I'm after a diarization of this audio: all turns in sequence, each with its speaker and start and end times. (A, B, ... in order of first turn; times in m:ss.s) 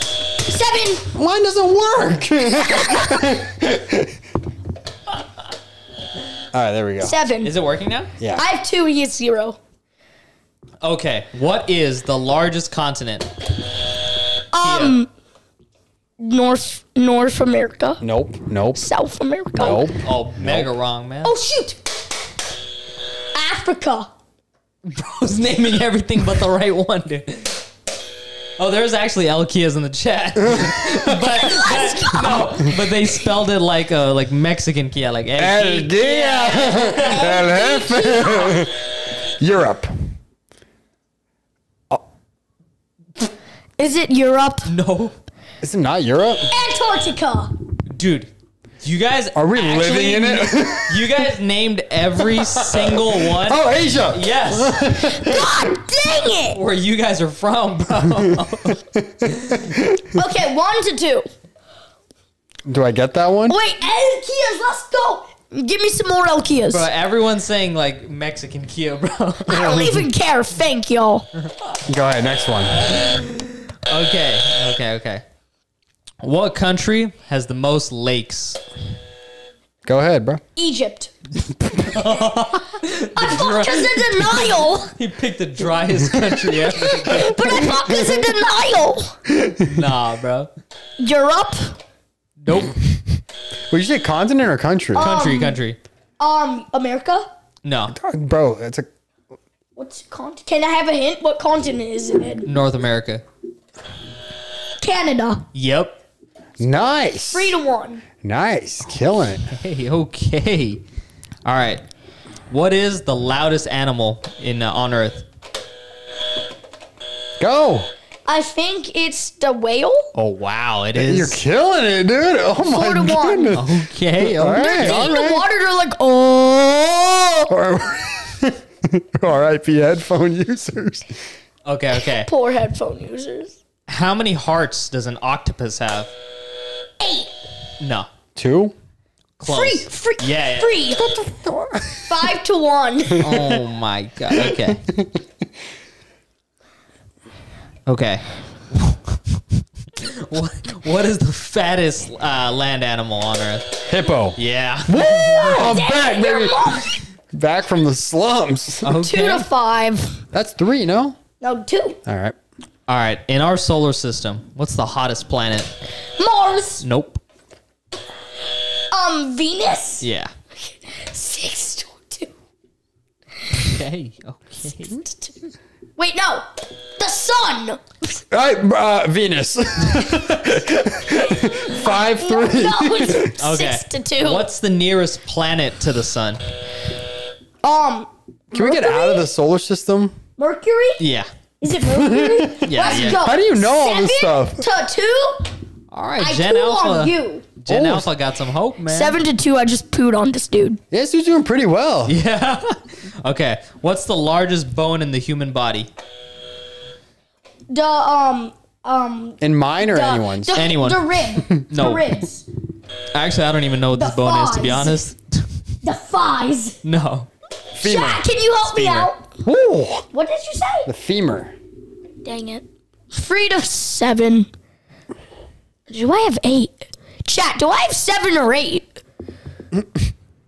0:00.3-0:01.1 A
0:01.1-0:04.2 B
0:06.5-0:07.1 B
0:07.0-0:07.5 A
0:07.4-0:08.1 C
0:08.2-0:08.4 B
0:08.3-0:09.6 A
0:10.8-0:13.3 C
0:14.5-0:15.1 A
0:14.6-0:15.0 C
0:16.2-0:18.0 A
0:18.0-0:18.8 B
0:18.8-0:19.9 A
0:19.6-0:20.7 B
0:19.9-0:21.4 C
0:21.2-0:21.8 A
0:23.3-0:24.1 A
0:24.8-0:27.6 C
0:28.6-0:37.4 C
0:30.4-0:31.4 B
0:31.4-0:32.7 A
0:35.4-0:39.9 B
0:36.7-0:38.7 A
0:43.8-0:44.7 A
0:44.7-0:45.1 C
0:45.6-0:46.5 B
0:46.5-0:47.5 A
0:47.9-0:48.3 C
0:48.8-0:55.0 C
0:49.3-0:51.1 B
0:52.3-0:55.5 B
0:54.9-0:56.6 A
0:56.5-0:59.7 C
0:58.0-1:00.2 B
1:00.1-1:01.2 A
1:02.6-1:03.6 B
1:03.5-1:06.9 A
1:06.7-1:09.8 C
1:09.5-1:11.3 A
1:09.5-1:10.1 B
1:11.9-1:12.9 B
1:12.8-1:15.2 C
1:16.2-1:18.6 C
1:19.8-1:20.4 B
1:20.6-1:21.1 A
1:21.6-1:27.7 C
1:23.1-1:24.9 A
1:26.7-1:29.2 A
1:27.6-1:28.3 B
1:29.4-1:29.9 B
1:29.6-1:30.5 C
1:31.0-1:31.8 A
1:32.4-1:32.8 C
1:33.7-1:35.1 B
1:34.9-1:35.6 A
1:35.0-1:35.8 C
1:36.2-1:37.3 A
1:37.6-1:37.9 C
1:37.9-1:38.8 B
1:39.8-1:42.5 A
1:42.4-1:43.2 C
1:44.8-1:45.4 A
1:45.5-1:46.0 C
1:46.6-1:47.6 B
1:47.3-1:48.0 A
1:48.2-1:49.5 B
1:49.5-1:50.8 C
1:51.4-1:51.8 C
1:52.5-1:55.2 C
1:57.4-1:57.9 B
1:58.3-2:00.1 A
2:00.2-2:01.4 C
2:00.9-2:05.4 B
2:02.6-2:03.6 A
2:03.5-2:05.2 C
2:04.5-2:07.5 A
2:07.5-2:11.2 B
2:11.6-2:12.3 C
2:11.9-2:13.5 A
2:13.9-2:16.1 C
2:17.0-2:17.3 A
2:17.8-2:18.1 C
2:18.3-2:18.7 B
2:19.4-2:20.8 C
2:19.4-2:21.1 A
2:21.0-2:22.2 B
2:22.0-2:23.3 A
2:23.1-2:23.6 B
2:23.2-2:24.8 C
2:24.3-2:25.2 B
2:27.9-2:29.2 C
2:30.0-2:33.8 C
2:33.9-2:39.0 B
2:34.4-2:35.7 C
2:35.3-2:37.0 A
2:38.8-2:39.5 C
2:39.0-2:40.2 A
2:40.3-2:41.2 B
2:41.4-2:42.0 A
2:42.0-2:42.3 B
2:42.9-2:45.7 C
2:46.2-2:46.8 A
2:46.8-2:47.2 C
2:48.9-2:50.1 A
2:50.0-2:50.3 C
2:50.8-2:52.3 A
2:53.5-2:55.0 C
2:55.0-2:55.3 A
2:56.0-2:57.8 A
2:58.3-3:03.4 B
3:01.3-3:04.4 A
3:03.4-3:06.4 C
3:07.6-3:09.3 A
3:08.5-3:10.2 B
3:10.4-3:11.0 A
3:11.0-3:11.3 C
3:11.6-3:15.5 A
3:11.8-3:14.6 B
3:12.6-3:13.2 C
3:15.9-3:19.2 C
3:16.2-3:17.5 A
3:17.7-3:18.1 B
3:18.9-3:20.8 A
3:20.9-3:22.2 B
3:22.1-3:25.9 C
3:27.7-3:32.4 A
3:29.4-3:30.7 B
3:30.5-3:32.2 C
3:33.1-3:35.4 C
3:33.9-3:35.0 A
3:35.8-3:36.8 A
3:36.8-3:37.3 C
3:37.8-3:38.2 B
3:37.8-3:39.3 A
3:38.6-3:39.1 C
3:39.4-3:40.0 B
3:40.1-3:40.9 A
3:40.8-3:41.5 B
3:42.2-3:44.5 A
3:45.9-3:48.9 A